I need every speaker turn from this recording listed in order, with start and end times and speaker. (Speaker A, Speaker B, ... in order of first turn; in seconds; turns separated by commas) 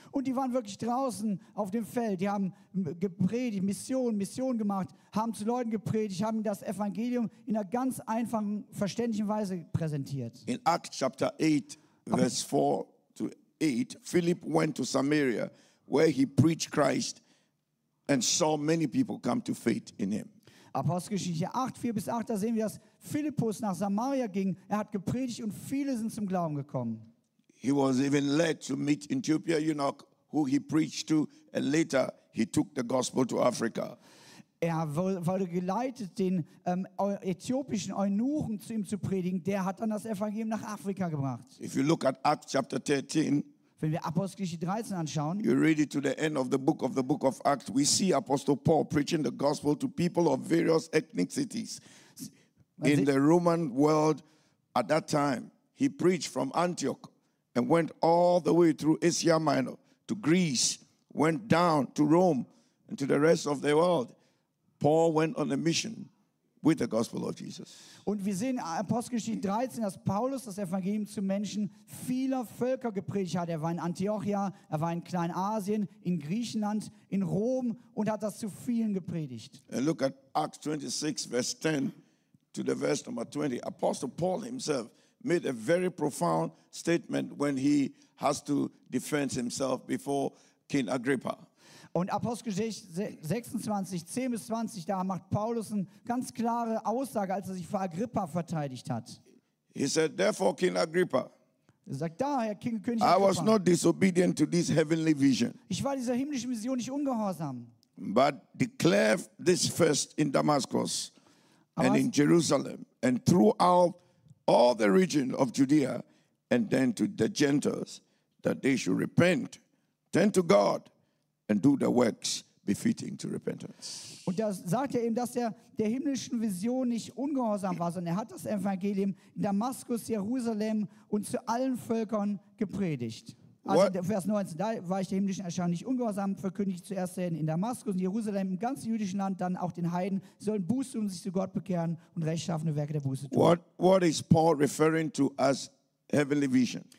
Speaker A: 0.1-10.5, Speaker B: 10.5-17.2, Speaker B: 18.1-20.3, Speaker A: 20.7-27.1, Speaker B: 27.6-34.0, Speaker A: 34.6-41.6, Speaker B: 41.6-43.5, Speaker A: 43.8-45.5, Speaker B: 45.4-51.8, Speaker A: 52.8-53.1, Speaker B: 52.8-54.2, Speaker B: 54.7-64.1, Speaker B: 64.8-66.1, Speaker B: 66.6-67.8, Speaker A: 68.0-79.6, Speaker B: 79.7-82.0, Speaker B: 82.5-91.5, Speaker A: 91.9-99.2, Speaker B: 99.7-101.3, Speaker A: 101.9-103.6, Speaker B: 103.0-105.6, Speaker A: 105.7-107.7, Speaker B: 108.0-111.1, Speaker A: 111.8-112.1, Speaker B: 111.8-119.6, Speaker B: 120.1-120.9, Speaker B: 121.5-124.2, Speaker A: 124.2-143.5, Speaker B: 133.7-133.9, Speaker B: 143.3-146.9